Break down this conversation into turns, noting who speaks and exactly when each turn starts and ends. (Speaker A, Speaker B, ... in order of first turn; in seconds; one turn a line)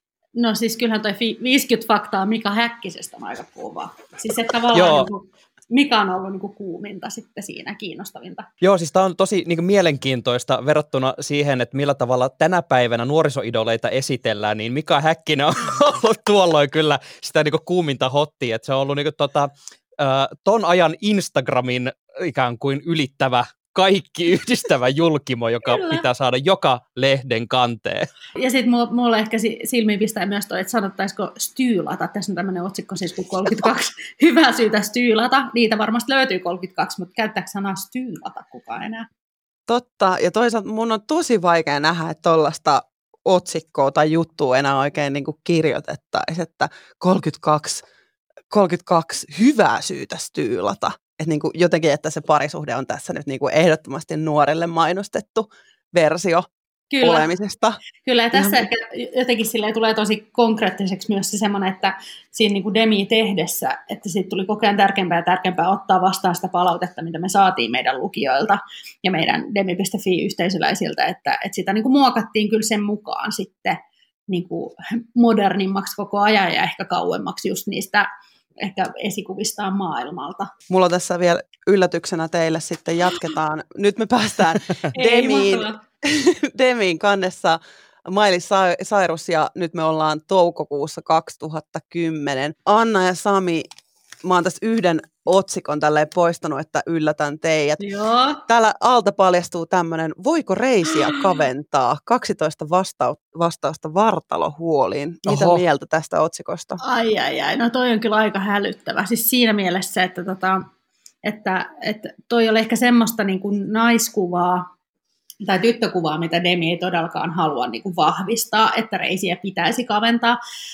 Speaker A: 0.4-8.5
Speaker B: 4.7-5.1
Speaker B: 8.6-28.1
Speaker A: 25.7-26.0
Speaker A: 28.4-39.1
Speaker C: 39.7-47.8
Speaker C: 48.5-56.5
Speaker A: 56.9-57.3
Speaker C: 57.0-57.8
Speaker A: 58.0-73.8
Speaker C: 58.3-58.6
Speaker A: 74.3-78.1
Speaker A: 78.6-80.5
Speaker C: 80.7-93.7
Speaker A: 84.9-85.8
Speaker C: 94.2-97.8
Speaker A: 97.8-98.4
Speaker C: 98.5-106.8
Speaker B: 105.3-105.6
Speaker A: 106.8-110.6
Speaker A: 111.2-114.7
Speaker A: 115.4-120.4